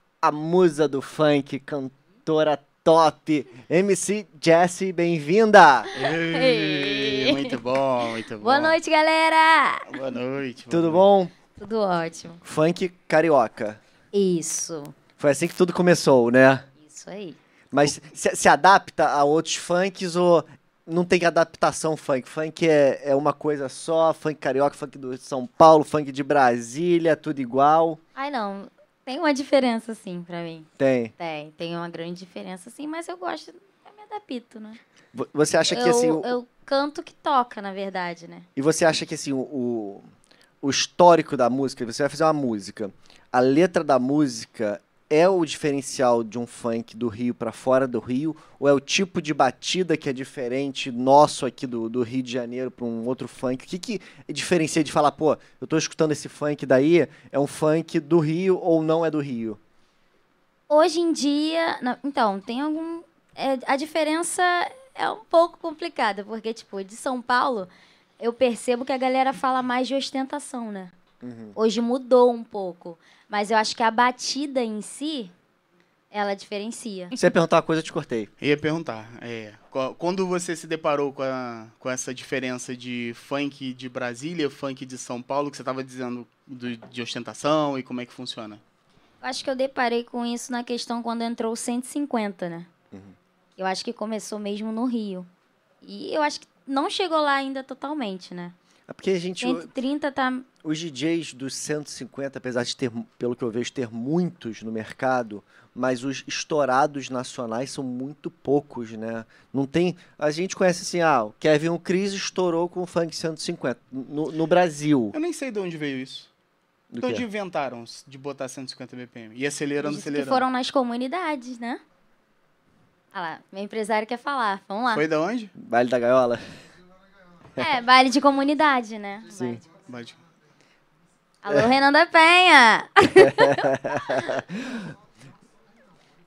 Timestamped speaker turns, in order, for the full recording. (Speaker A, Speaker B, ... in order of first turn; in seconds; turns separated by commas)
Speaker A: 0.2-5.9, Speaker B: 6.0-8.8, Speaker C: 6.0-7.5, Speaker C: 8.4-9.9, Speaker B: 9.9-11.0, Speaker A: 10.7-11.3, Speaker C: 11.6-12.4, Speaker A: 12.4-13.8, Speaker C: 14.1-14.9, Speaker A: 15.2-16.7, Speaker C: 16.8-17.4, Speaker A: 17.7-28.0, Speaker C: 28.2-34.8, Speaker A: 30.8-31.1, Speaker A: 35.1-36.4, Speaker C: 35.7-38.5, Speaker A: 38.6-40.1, Speaker A: 40.6-59.6, Speaker C: 60.7-70.9, Speaker A: 71.2-71.6, Speaker C: 71.6-75.3, Speaker C: 76.1-77.2, Speaker A: 77.2-78.3, Speaker B: 78.4-88.6, Speaker C: 89.2-92.7, Speaker C: 93.6-95.3, Speaker C: 95.8-98.5, Speaker A: 98.9-99.7, Speaker C: 99.4-100.5, Speaker A: 100.6-115.2, Speaker B: 115.1-116.3, Speaker A: 116.9-117.2, Speaker B: 117.0-120.5, Speaker C: 119.8-121.8, Speaker C: 123.1-125.0, Speaker B: 124.9-125.5, Speaker A: 125.6-126.4, Speaker C: 127.6-129.7, Speaker A: 129.3-129.6, Speaker B: 129.9-130.2, Speaker C: 131.4-134.3, Speaker A: 133.2-134.9